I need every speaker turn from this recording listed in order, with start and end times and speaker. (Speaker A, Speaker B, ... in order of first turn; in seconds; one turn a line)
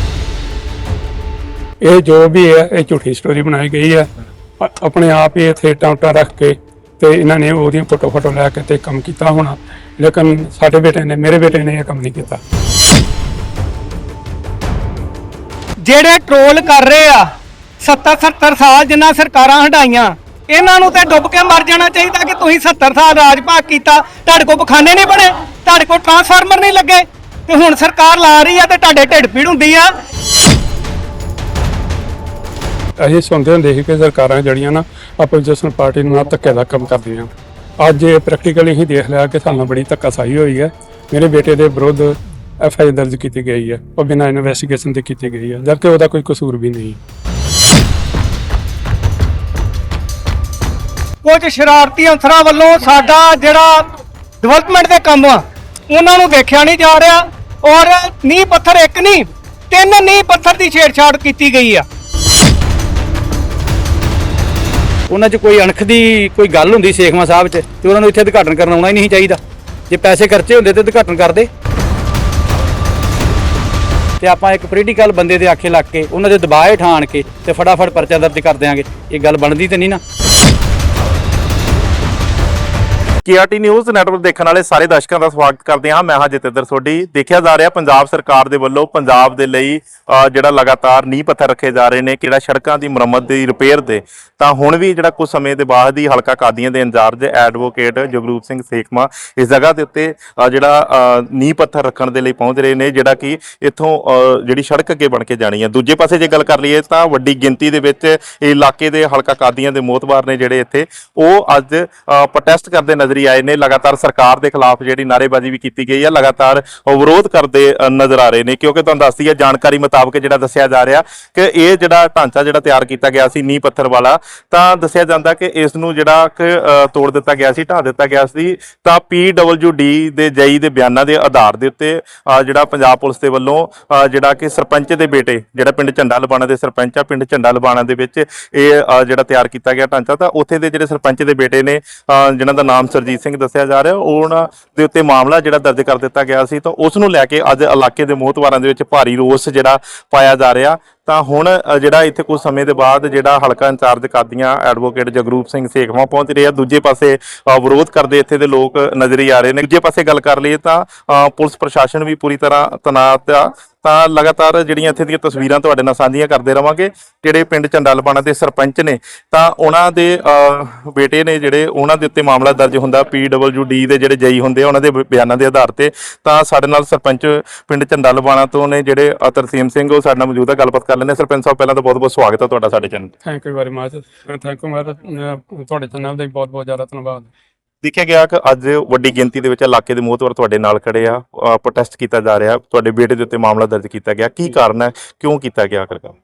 Speaker A: 1.8-4.1
Speaker A: 4.6-12.4
Speaker B: 15.8-17.3
Speaker B: 17.8-29.9
Speaker A: 33.0-37.3
Speaker A: 37.8-47.0
Speaker B: 51.2-53.8
Speaker B: 54.4-61.9
Speaker C: 65.1-69.4
Speaker C: 69.9-71.5
Speaker C: 74.2-80.0
Speaker D: 83.2-183.1
Speaker A: 183.2-187.3
Speaker D: 187.8-196.2